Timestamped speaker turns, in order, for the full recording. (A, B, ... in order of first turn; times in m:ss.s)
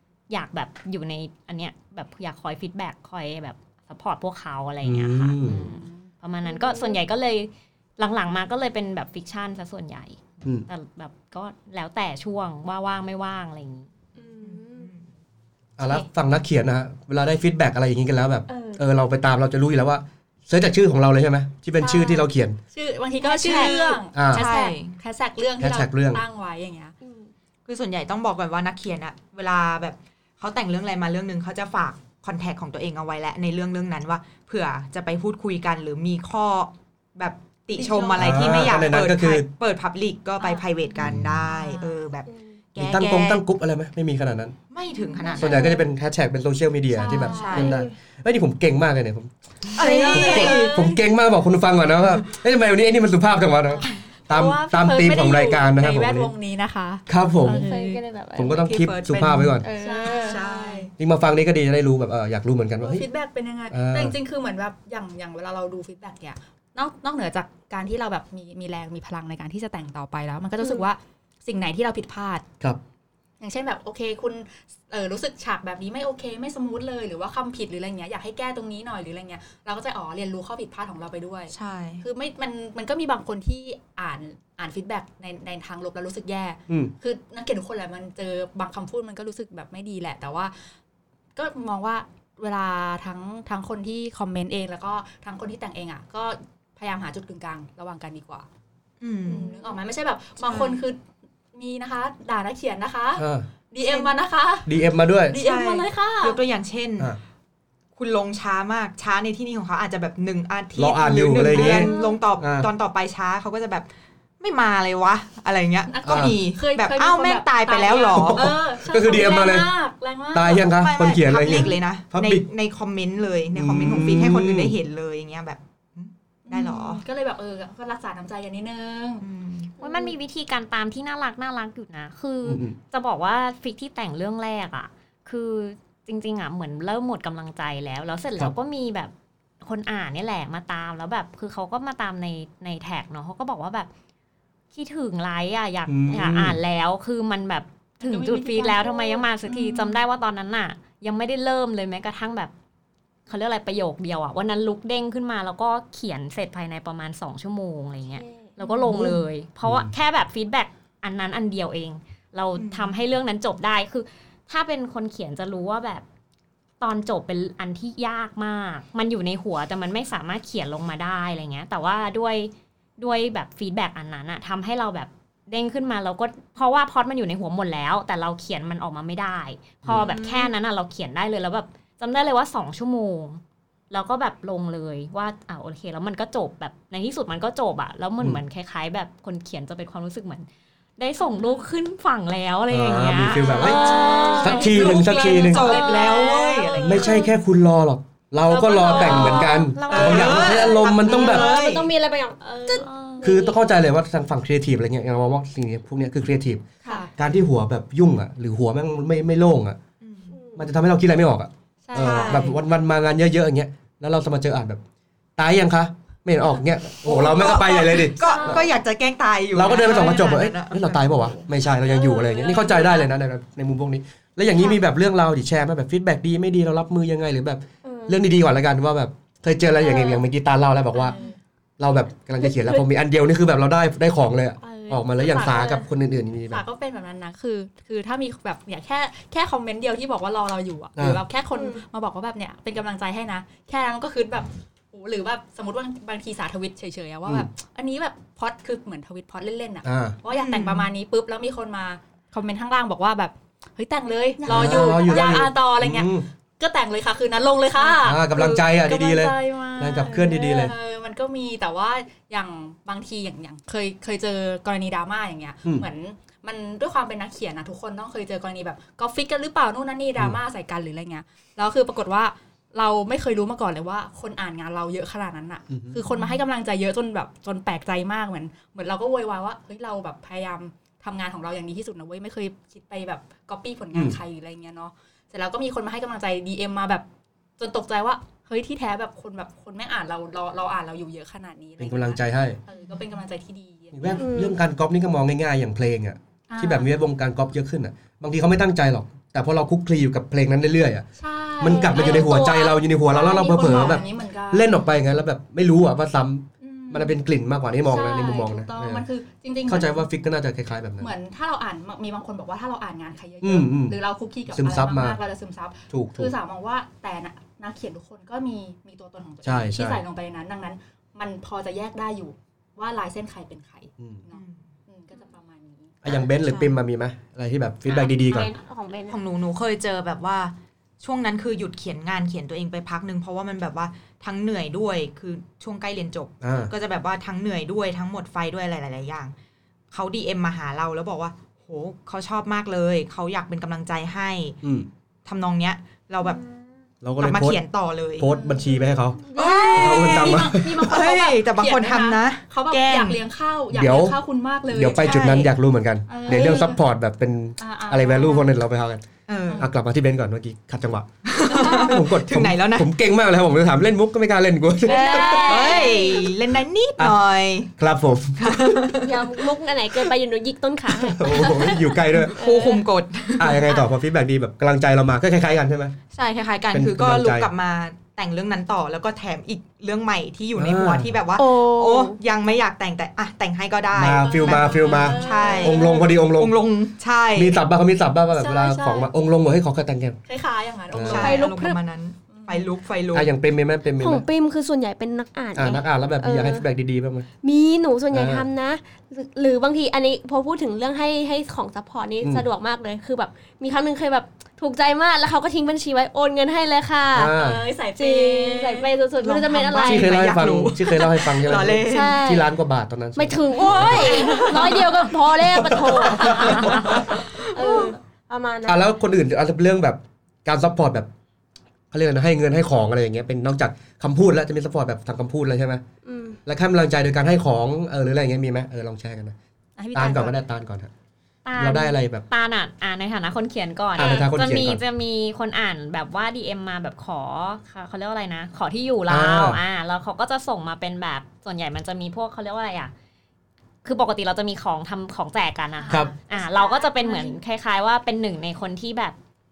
0:00.3-0:13.9 A
0:04.8-0:05.6 B
0:05.5-0:06.1 C
0:06.4-0:07.0 D
0:14.2-0:14.9 D
0:14.4-0:15.1 E
0:15.8-0:22.6 B
0:18.5-0:18.8 D
0:21.8-0:26.9 C
0:23.2-0:24.0 D
0:23.2-0:25.0 E
0:24.1-0:24.5 B
0:25.6-0:26.2 B
0:27.0-0:27.3 D
0:27.6-0:43.4 E
0:37.7-0:38.5 C
0:38.1-0:39.5 B
0:40.4-0:40.6 C
0:41.0-0:41.5 B
0:41.5-0:41.9 C
0:42.3-0:42.6 D
0:42.8-0:44.6 B
0:44.7-0:45.8 E
0:44.9-0:45.6 C
0:45.4-0:45.8 D
0:45.4-0:49.3 B
0:46.9-0:47.8 C
0:47.2-0:47.8 E
0:47.4-0:47.9 D
0:49.8-0:50.8 E
0:49.8-0:51.0 C
0:49.8-0:50.5 D
0:50.1-0:56.3 B
0:53.7-0:58.0 C
0:57.1-0:57.6 B
0:57.4-0:58.6 D
0:58.4-0:59.6 B
0:58.5-1:00.9 E
0:59.6-1:00.5 D
0:59.8-1:00.9 C
1:01.0-1:03.0 B
1:02.8-1:12.4 C
1:03.7-1:04.1 B
1:13.4-1:30.5 C
1:21.5-1:22.0 E
1:31.4-1:38.4 C
1:39.0-1:39.5 E
1:39.2-1:41.0 C
1:40.4-1:40.8 E
1:41.5-1:44.7 C
1:43.2-1:43.5 B
1:44.6-1:45.4 B
1:45.3-1:46.4 C
1:45.3-1:47.2 E
1:47.9-1:53.9 E
1:50.8-1:52.7 B
1:51.6-1:52.2 D
1:51.6-1:51.9 C
1:54.4-1:58.6 E
1:55.9-2:00.7 C
1:56.0-1:56.3 B
1:58.1-1:59.7 B
2:00.3-2:02.4 B
2:00.6-2:07.0 E
2:03.5-2:04.7 B
2:06.4-2:09.2 C
2:09.2-2:09.7 E
2:09.8-2:10.1 D
2:09.8-2:23.9 A
2:12.4-2:12.8 B
2:24.7-2:32.5 A
2:25.9-2:26.6 B
2:28.0-2:29.2 C
2:29.5-2:30.0 E
2:33.3-2:46.0 A
2:38.2-2:38.5 D
2:38.9-2:39.1 E
2:39.6-2:39.9 B
2:42.6-2:42.9 E
2:46.8-3:10.4 A
2:59.8-3:00.1 B
2:59.9-3:00.5 E
3:11.0-3:14.6 A
3:12.7-3:15.9 B
3:13.4-3:17.2 C
3:13.6-3:14.7 D
3:13.9-3:17.2 E
3:16.8-3:21.5 B
3:17.0-3:17.3 D
3:18.4-3:19.6 C
3:18.9-3:19.7 D
3:19.0-3:21.9 E
3:19.3-3:20.4 A
3:20.4-3:23.6 D
3:22.4-3:23.3 C
3:22.8-3:23.2 A
3:23.2-3:26.6 B
3:26.8-3:27.1 C
3:27.2-3:29.8 B
3:30.0-3:30.4 E
3:30.3-3:30.7 D
3:30.6-3:34.8 B
3:31.8-3:32.6 C
3:32.0-3:32.5 E
3:35.4-3:38.6 B
3:37.0-3:41.4 E
3:38.2-3:38.7 D
3:39.5-3:51.2 B
3:42.0-3:43.0 C
3:42.1-3:43.0 D
3:47.8-3:48.2 D
3:49.8-3:50.2 D
3:50.9-3:51.4 C
3:51.8-3:56.6 B
3:52.4-3:52.8 D
3:54.6-3:55.8 C
3:56.5-4:47.0 C
4:01.0-4:01.2 B
4:01.5-4:01.8 D
4:09.8-4:10.2 B
4:10.3-4:10.9 E
4:14.4-4:15.4 D
4:14.5-4:16.3 B
4:18.0-4:20.7 B
4:35.7-4:36.2 B
4:47.6-4:54.2 C
4:51.8-4:52.6 B
4:53.9-5:01.0 B
4:54.2-4:54.5 D
4:56.5-4:56.9 C
5:01.2-5:04.8 C
5:01.6-5:09.0 B
5:01.9-5:02.2 D
5:06.6-5:07.2 C
5:07.8-5:10.0 C
5:09.7-5:11.1 B
5:11.0-5:26.0 C
5:13.4-5:14.0 B
5:14.5-5:15.2 B
5:15.9-5:16.3 B
5:19.4-5:20.0 B
5:24.3-5:24.7 E
5:26.0-5:28.5 B
5:28.2-5:29.2 D
5:29.1-5:39.3 E
5:36.4-5:36.7 B
5:39.9-5:44.6 E
5:44.6-5:44.9 B
5:45.2-5:46.4 E
5:47.0-5:47.6 B
5:47.2-5:48.3 E
5:48.2-5:50.9 B
5:48.2-5:55.5 C
5:49.3-5:50.1 D
5:49.3-5:53.2 E
5:53.7-5:54.2 B
5:54.7-5:59.0 B
5:55.0-5:55.4 E
5:56.1-5:56.8 C
5:56.3-5:56.6 D
5:57.6-5:58.5 C
5:59.3-5:59.7 E
5:59.6-6:05.6 B
6:01.2-6:02.9 E
6:01.5-6:02.0 C
6:04.8-6:06.3 D
6:05.0-6:05.5 C
6:05.2-6:07.7 E
6:07.8-6:08.9 B
6:08.4-6:09.2 E
6:09.0-6:12.8 D
6:11.1-6:12.4 B
6:12.3-6:13.8 E
6:13.4-6:15.9 B
6:16.1-6:27.6 E
6:16.7-6:17.5 B
6:20.6-6:21.2 B
6:21.4-6:22.2 D
6:23.9-6:26.6 B
6:24.1-6:26.1 C
6:27.3-6:30.2 B
6:28.3-6:29.2 C
6:30.2-6:31.5 C
6:30.9-6:31.3 B
6:31.1-6:33.3 E
6:31.2-6:31.8 D
6:32.3-6:32.7 C
6:33.1-6:34.2 B
6:34.0-6:36.6 D
6:35.5-6:37.3 B
6:37.4-6:47.3 D
6:38.1-6:38.4 B
6:47.1-6:47.6 B
6:47.3-6:48.9 C
6:48.0-6:50.3 D
6:49.2-6:52.2 E
6:49.8-6:57.4 B
6:51.8-6:52.5 D
6:53.2-6:58.8 D
6:54.1-6:54.8 E
6:56.3-6:56.7 E
6:57.6-6:57.9 C
6:57.6-6:57.9 E
6:58.6-7:01.1 B
7:01.9-7:05.8 B
7:06.0-7:06.4 D
7:06.4-7:09.3 B
7:09.8-7:10.4 C
7:09.9-7:10.9 B
7:11.4-7:22.9 A
7:11.6-7:12.2 B
7:14.0-7:14.8 B
7:19.1-7:19.6 B
7:23.8-7:29.2 A
7:25.8-7:27.3 C